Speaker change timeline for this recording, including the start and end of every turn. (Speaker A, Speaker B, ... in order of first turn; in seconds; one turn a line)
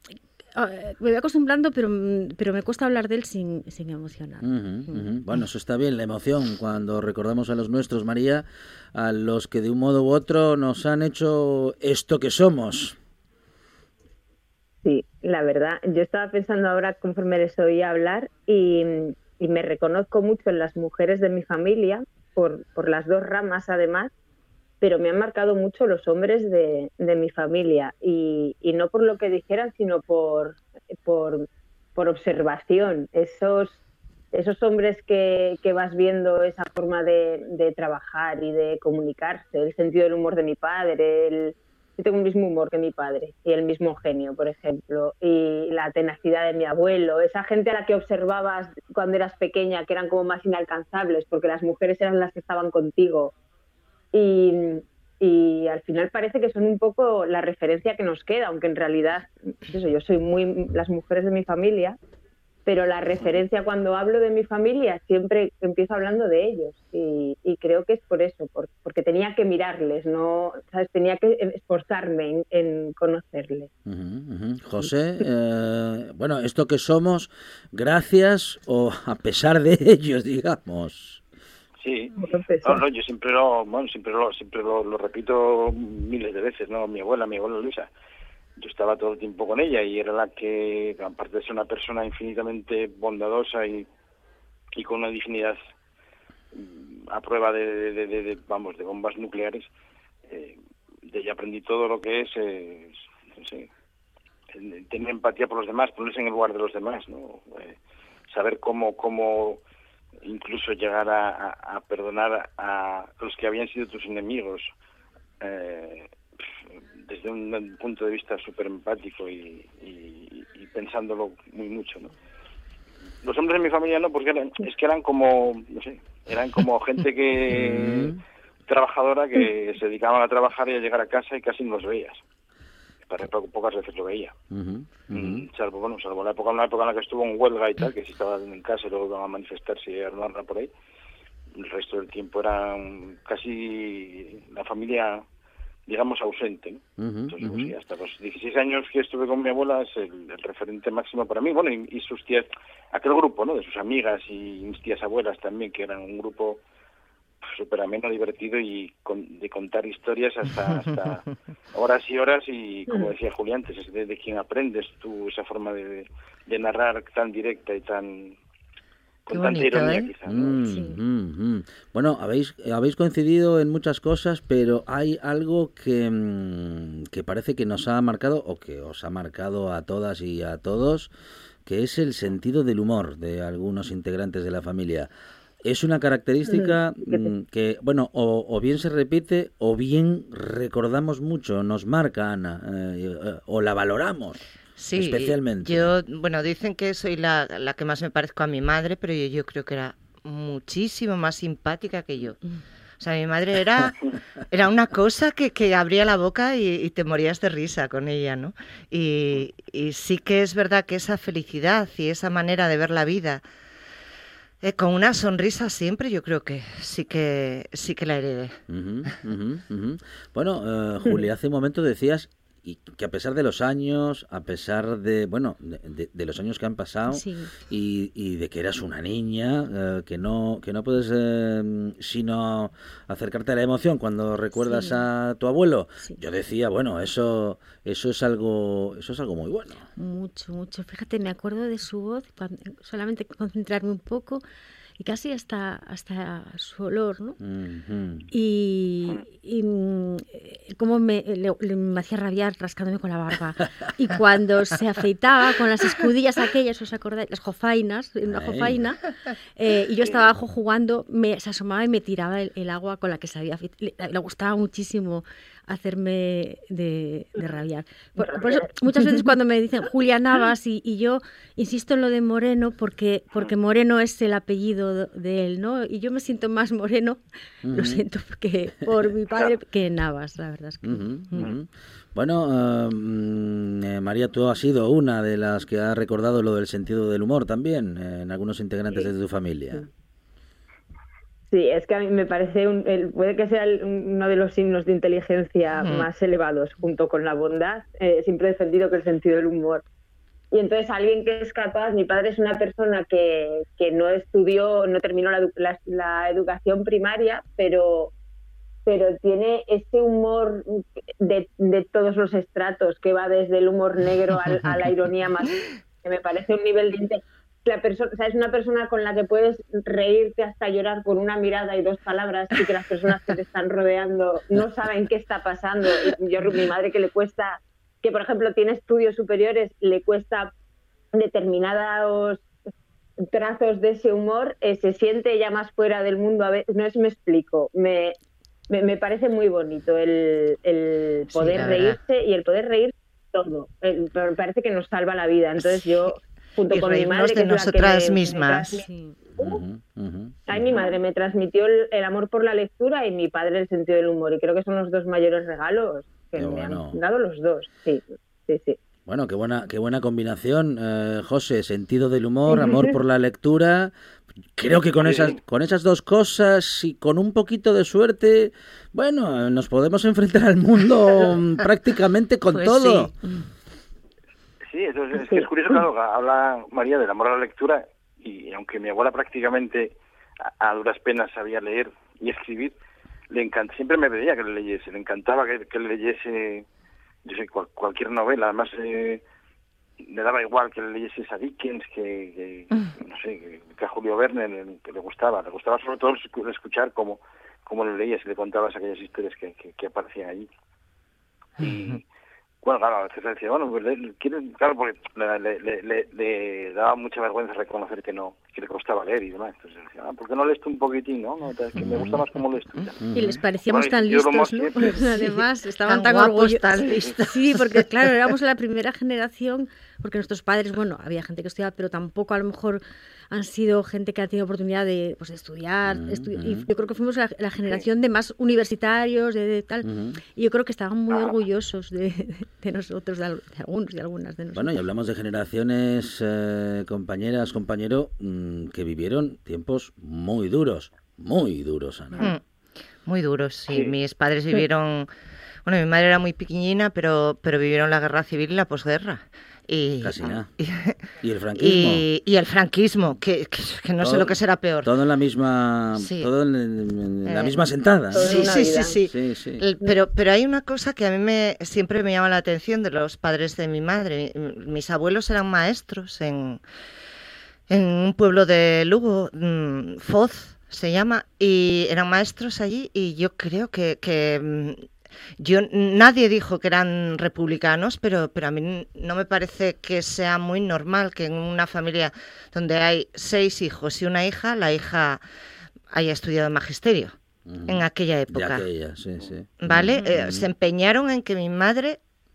Speaker A: 0.6-5.1
Speaker B: 4.4-13.0
Speaker C: 14.8-24.1
Speaker C: 24.8-31.4
Speaker C: 32.0-33.8
Speaker C: 34.3-53.3
Speaker C: 54.1-62.0
Speaker C: 62.7-73.7
Speaker B: 73.9-81.2
Speaker D: 81.8-87.9
Speaker C: 82.2-82.8
Speaker D: 88.6-93.9
Speaker D: 94.8-95.6
Speaker D: 96.5-99.7
Speaker D: 100.3-100.6
Speaker D: 101.1-103.7
Speaker D: 104.5-107.8
Speaker D: 108.3-109.6
Speaker D: 110.2-114.7
Speaker D: 115.4-116.1
Speaker D: 117.1-122.1
Speaker D: 123.2-128.2
Speaker B: 127.5-128.2
Speaker D: 128.7-132.2
Speaker D: 133.1-134.3
Speaker B: 134.5-135.5
Speaker D: 135.1-140.7
Speaker D: 141.6-145.2
Speaker D: 145.9-156.6
Speaker B: 147.0-147.7
Speaker D: 157.4-161.2
Speaker D: 161.8-168.4
Speaker D: 169.3-170.6
Speaker E: 169.3-170.1
Speaker B: 170.3-181.1
Speaker A: 170.6-171.0
Speaker B: 181.7-185.1
Speaker B: 185.6-194.4
Speaker C: 186.5-187.3
Speaker E: 194.8-202.4
Speaker B: 195.0-195.9
Speaker E: 203.0-204.0
Speaker E: 204.5-213.4
Speaker E: 214.6-218.6
Speaker B: 218.7-239.8
Speaker A: 227.1-227.5
Speaker A: 234.5-235.1
Speaker A: 240.0-244.4
Speaker A: 245.0-247.4
Speaker B: 247.4-248.3
Speaker A: 248.3-281.5
Speaker B: 258.3-258.8
Speaker B: 277.6-278.0
Speaker B: 280.8-289.9
Speaker C: 291.5-299.8
Speaker E: 295.8-296.1
Speaker C: 300.5-308.1
Speaker C: 308.9-330.5
Speaker C: 331.1-332.5
Speaker C: 333.2-338.2
Speaker C: 338.7-348.9
Speaker E: 341.3-342.0
Speaker E: 346.7-348.8
Speaker A: 348.9-349.4
Speaker B: 349.4-350.7
Speaker C: 350.5-358.8
Speaker B: 356.4-357.0
Speaker B: 359.1-363.9
Speaker C: 362.5-362.9
Speaker B: 364.6-373.1
Speaker D: 365.0-365.4
Speaker E: 372.5-373.1
Speaker D: 374.7-380.0
Speaker C: 375.2-375.5
Speaker D: 380.5-382.7
Speaker D: 383.3-386.6
Speaker D: 387.2-389.2
Speaker D: 390.0-400.5
Speaker D: 401.6-402.0
Speaker D: 402.6-413.0
Speaker B: 411.8-412.2
Speaker B: 413.0-413.4
Speaker A: 413.1-434.9
Speaker D: 413.7-414.9
Speaker E: 414.9-418.3
Speaker B: 425.9-426.7
Speaker B: 429.8-430.2
Speaker D: 431.1-431.4
Speaker B: 434.5-442.2
Speaker E: 442.2-442.4
Speaker E: 443.1-445.1
Speaker E: 445.7-451.0
Speaker B: 450.0-450.5
Speaker B: 451.2-452.1
Speaker E: 451.6-454.9
Speaker B: 454.0-458.5
Speaker E: 455.9-456.3
Speaker E: 457.2-457.6
Speaker C: 458.1-459.0
Speaker E: 458.1-466.6
Speaker B: 459.1-459.6
Speaker E: 467.7-485.2
Speaker E: 485.9-488.7
Speaker B: 487.5-490.5
Speaker E: 489.6-492.0